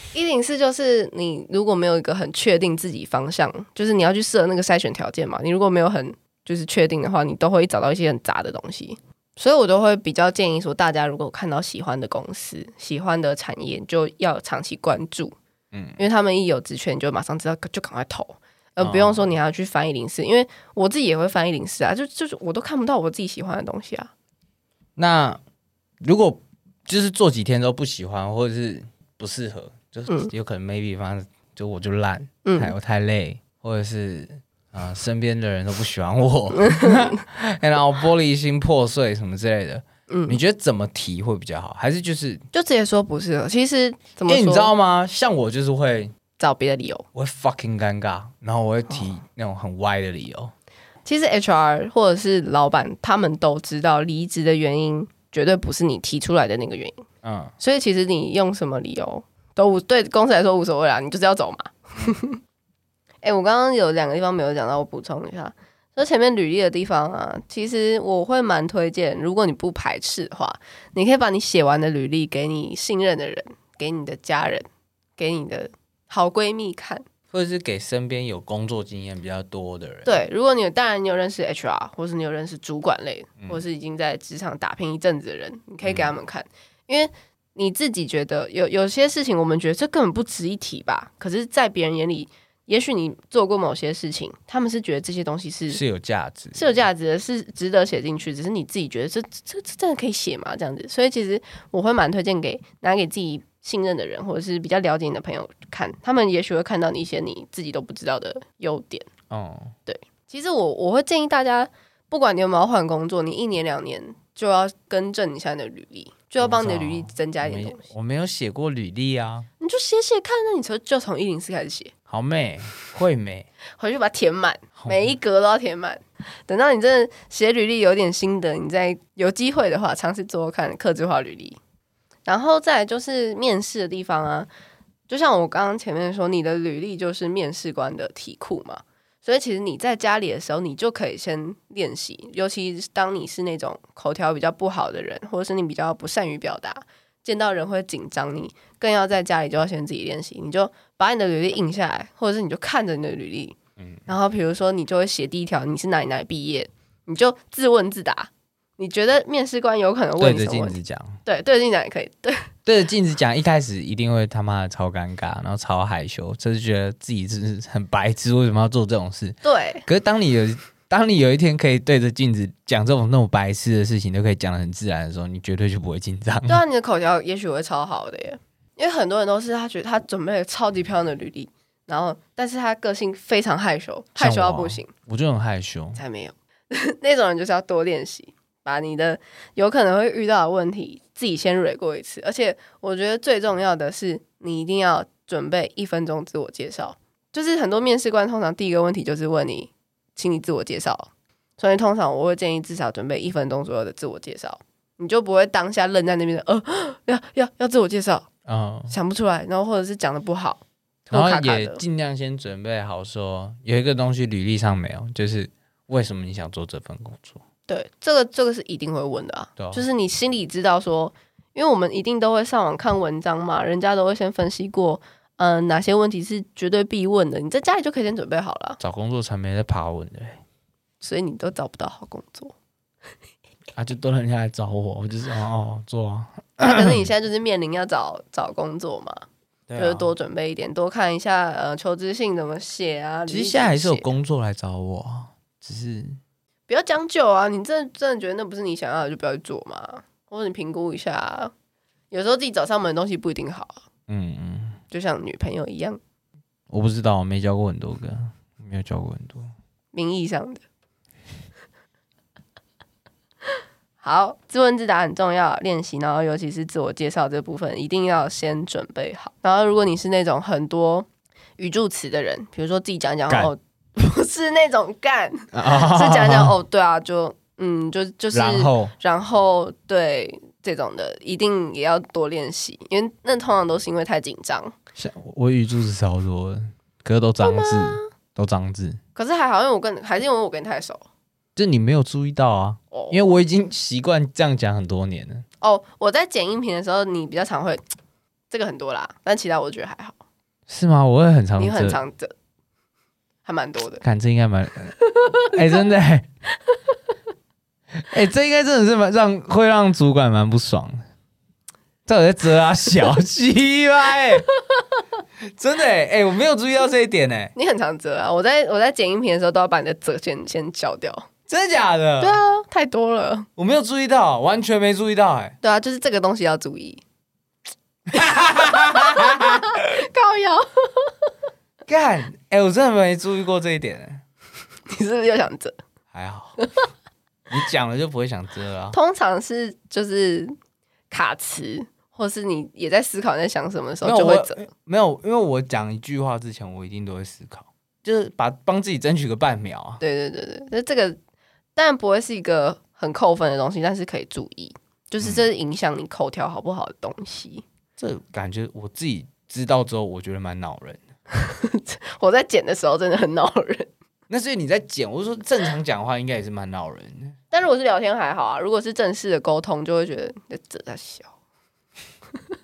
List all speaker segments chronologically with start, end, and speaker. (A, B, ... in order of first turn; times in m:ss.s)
0:00.1-0:15.4 A
0:15.7-0:16.0 B
0:16.0-0:24.1 A
0:18.8-0:19.3 B
0:25.0-0:25.4 B
0:26.0-0:42.4 B
0:32.4-0:32.7 A
0:36.5-0:37.2 A
0:40.1-0:40.4 A
0:42.5-0:44.7 A
0:44.3-0:46.1 B
0:46.4-0:47.0 A
0:47.1-0:50.5 B
0:51.0-0:57.0 A
0:57.2-0:57.5 B
0:57.6-1:02.4 A
1:03.2-1:14.6 A
1:15.2-1:17.0 A
1:17.3-1:20.2 B
1:20.0-1:35.8 A
1:25.8-1:26.1 B
1:35.7-1:36.7 B
1:36.5-1:49.1 A
1:49.3-1:49.7 B
1:49.9-1:57.8 A
1:56.4-1:59.5 B
1:59.6-2:01.9 A
2:02.1-2:03.5 B
2:03.8-2:11.6 A
2:04.8-2:05.1 B
2:12.2-2:14.5 A
2:15.1-2:33.6 A
2:34.1-2:42.5 A
2:40.2-2:41.2 B
2:42.6-2:56.6 B
2:49.4-2:49.8 A
2:56.5-3:04.9 A
3:04.2-3:06.0 B
3:05.9-3:28.3 A
3:28.4-3:28.9 B
3:28.9-3:31.8 A
3:31.1-3:37.4 B
3:37.7-3:48.8 A
3:39.6-3:39.8 B
3:48.8-3:50.4 B
3:51.0-3:52.5 A
3:53.7-3:57.0 B
3:56.6-3:59.2 A
3:59.7-4:00.1 B
3:59.8-4:04.1 A
4:03.3-4:06.2 B
4:06.7-4:11.5 A
4:12.1-4:13.8 A
4:14.1-4:14.8 B
4:14.9-4:16.0 A
4:16.7-4:19.5 B
4:19.9-4:20.6 A
4:24.0-4:31.1 A
4:31.6-4:44.7 A
4:35.5-4:36.6 B
4:38.3-4:38.9 B
4:45.0-4:49.0 B
4:47.4-4:48.1 A
4:49.1-4:51.0 A
4:51.6-4:55.4 B
4:52.9-4:53.3 A
4:55.6-4:57.8 A
4:58.5-5:00.2 A
5:00.7-5:02.0 B
5:01.6-5:02.3 A
5:03.4-5:04.0 A
5:04.0-5:06.3 B
5:05.2-5:05.5 A
5:08.0-5:11.0 B
5:12.0-5:14.5 B
5:15.6-5:17.5 B
5:17.5-5:21.3 A
5:21.5-5:22.4 B
5:22.2-5:23.5 A
5:23.6-5:25.6 B
5:25.6-5:27.0 A
5:28.1-5:29.6 B
5:28.6-5:31.1 A
5:31.9-5:34.2 B
5:34.9-5:35.8 A
5:36.1-5:36.6 B
5:37.5-5:39.0 B
5:38.9-5:40.5 A
5:41.1-5:44.6 A
5:44.0-5:50.0 B
5:50.0-5:51.2 A
5:51.8-5:57.6 A
5:58.0-6:01.0 B
6:01.3-6:03.9 A
6:04.3-6:07.3 B
6:07.5-6:11.3 A